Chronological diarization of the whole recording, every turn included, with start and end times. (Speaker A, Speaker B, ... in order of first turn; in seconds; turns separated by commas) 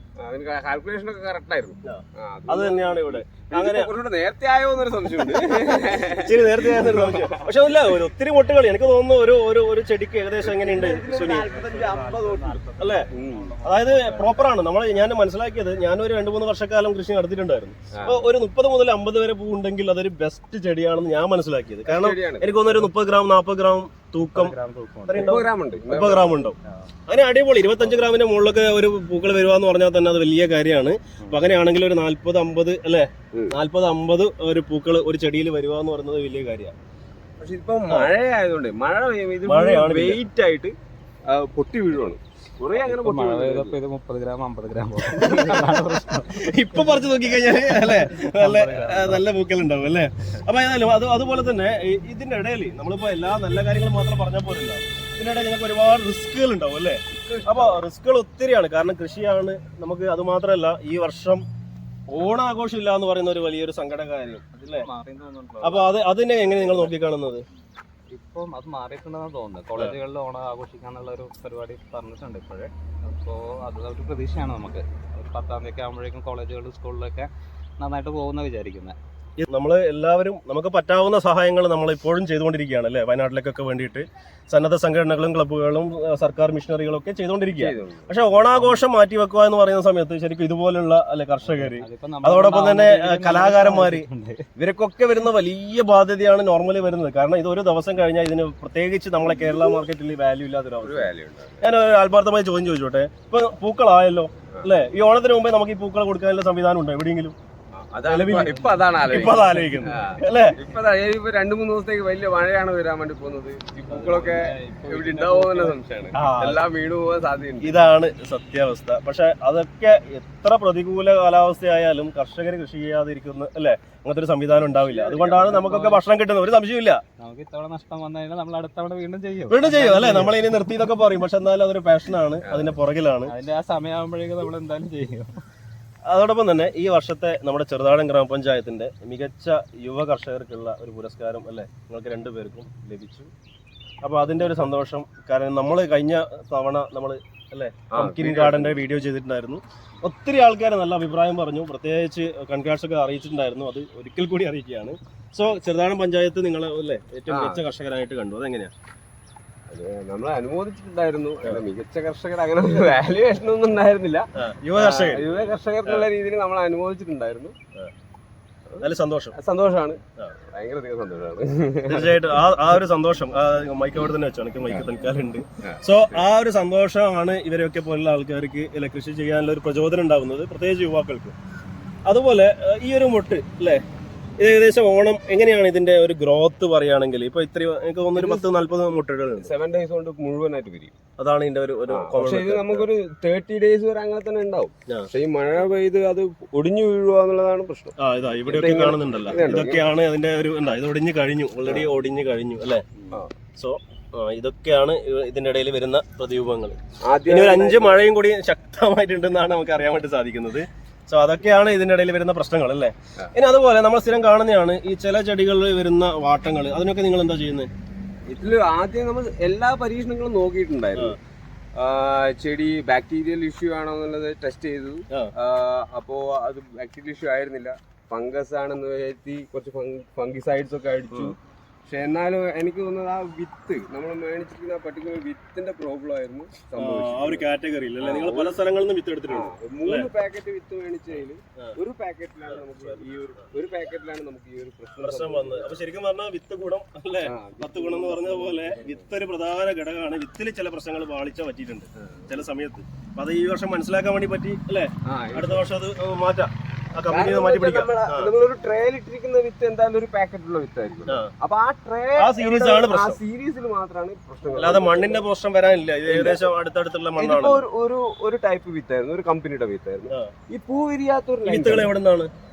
Speaker A: 0.2-8.1, Speaker B: 1.8-3.9, Speaker B: 5.1-11.5, Speaker A: 10.4-13.6, Speaker C: 10.9-14.5, Speaker B: 12.8-13.1, Speaker B: 13.6-24.6, Speaker A: 17.9-18.3, Speaker A: 21.9-22.9, Speaker C: 24.3-26.1, Speaker B: 25.1-36.7, Speaker A: 25.1-26.5, Speaker C: 26.6-26.9, Speaker A: 27.8-28.1, Speaker C: 31.2-31.5, Speaker A: 37.4-40.7, Speaker B: 39.5-40.2, Speaker A: 41.3-43.8, Speaker C: 42.7-49.3, Speaker A: 45.2-45.6, Speaker B: 46.3-61.4, Speaker A: 57.1-57.8, Speaker B: 62.1-64.9, Speaker C: 64.5-65.9, Speaker B: 65.6-67.4, Speaker C: 68.1-79.0, Speaker B: 79.4-101.1, Speaker A: 87.5-88.5, Speaker C: 91.4-94.4, Speaker A: 100.8-101.7, Speaker B: 101.6-107.3, Speaker A: 107.7-117.8, Speaker B: 108.0-110.5, Speaker C: 108.3-109.9, Speaker C: 113.9-115.8, Speaker B: 116.1-116.7, Speaker B: 117.6-127.0, Speaker C: 124.8-126.0, Speaker A: 125.2-125.5, Speaker C: 127.2-130.4, Speaker B: 129.5-133.3, Speaker A: 132.4-132.8, Speaker C: 133.3-135.4, Speaker B: 136.1-143.3, Speaker B: 144.0-158.7, Speaker A: 147.9-148.8, Speaker A: 157.3-157.6, Speaker A: 159.7-167.5, Speaker B: 164.3-166.1, Speaker A: 168.7-172.3, Speaker B: 168.8-169.3, Speaker B: 171.9-181.3, Speaker A: 175.6-176.2, Speaker B: 182.1-183.8, Speaker B: 184.4-189.5, Speaker A: 188.1-188.5, Speaker A: 189.4-190.9, Speaker B: 191.2-192.9, Speaker A: 191.9-197.9, Speaker B: 198.0-202.8, Speaker A: 198.5-199.9, Speaker A: 201.6-201.9, Speaker B: 203.6-217.7, Speaker A: 207.0-208.1, Speaker A: 218.3-221.2, Speaker A: 221.8-237.5, Speaker B: 236.8-240.1, Speaker A: 238.0-238.6, Speaker A: 239.3-245.8, Speaker B: 242.5-243.4, Speaker B: 245.0-258.3, Speaker A: 247.2-249.1, Speaker A: 252.0-252.3, Speaker A: 255.1-255.7, Speaker A: 256.9-265.2, Speaker B: 262.2-263.2, Speaker B: 264.5-267.6, Speaker A: 266.0-266.5, Speaker A: 267.1-271.9, Speaker B: 271.4-272.3